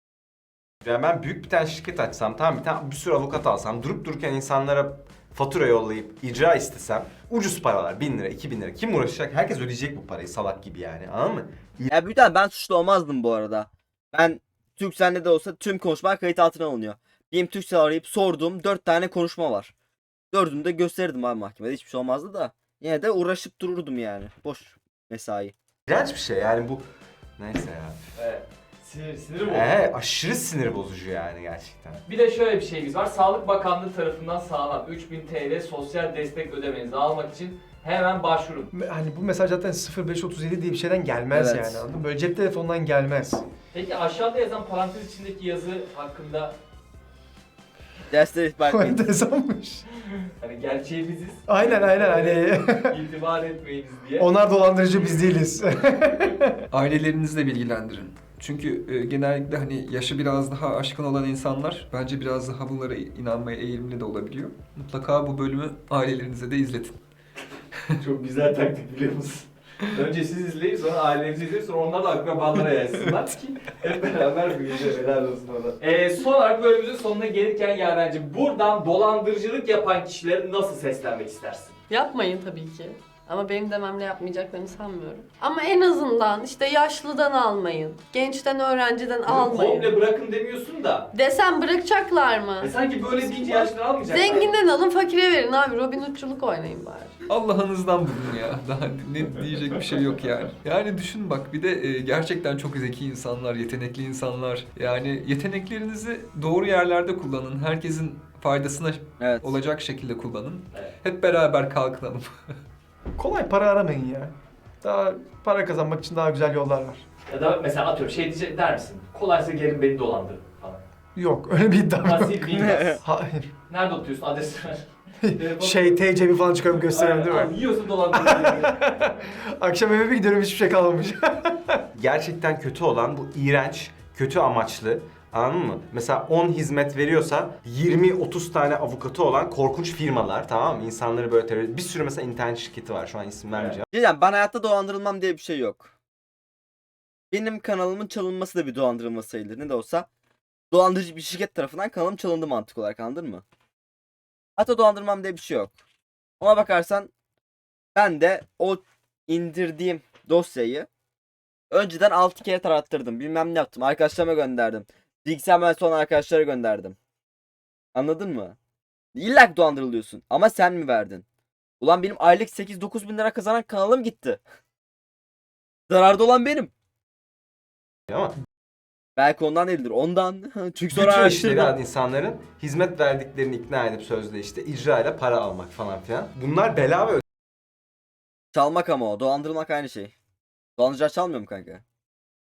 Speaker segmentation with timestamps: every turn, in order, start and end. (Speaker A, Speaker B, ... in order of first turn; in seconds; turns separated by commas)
Speaker A: 0.8-11.9, Speaker B: 11.9-19.7, Speaker B: 20.3-25.5, Speaker A: 25.9-26.9, Speaker A: 27.4-28.0, Speaker C: 28.2-29.9, Speaker A: 29.4-32.0, Speaker C: 32.1-38.7, Speaker D: 38.7-43.4, Speaker B: 41.3-41.8, Speaker C: 43.7-46.5, Speaker B: 48.1-49.0, Speaker D: 48.7-49.8, Speaker C: 50.4-54.3, Speaker D: 51.5-53.0, Speaker D: 54.2-56.5, Speaker E: 56.7-67.0, Speaker C: 68.0-81.8, Speaker F: 81.9-89.9, Speaker C: 89.2-91.1, Speaker F: 91.1-97.2, Speaker C: 92.6-94.5, Speaker E: 97.3-112.3, Speaker B: 109.2-109.5, Speaker D: 113.2-117.0, Speaker C: 117.3-120.8, Speaker D: 121.2-123.5, Speaker C: 122.0-123.0, Speaker B: 122.5-123.0, Speaker C: 123.7-126.2, Speaker D: 125.2-127.5, Speaker C: 126.7-128.9, Speaker D: 128.1-131.8, Speaker A: 131.9-143.8, Speaker B: 143.9-145.9, Speaker B: 147.3-150.1, Speaker B: 150.7-153.4, Speaker B: 154.6-155.7, Speaker B: 156.4-157.1, Speaker B: 157.9-160.9, Speaker B: 161.7-167.0, Speaker B: 167.9-168.6, Speaker B: 169.1-171.2, Speaker B: 171.8-174.4, Speaker B: 175.9-176.7, Speaker A: 178.1-178.3, Speaker B: 179.2-181.7, Speaker A: 180.9-187.2, Speaker B: 188.5-190.1, Speaker B: 190.8-191.8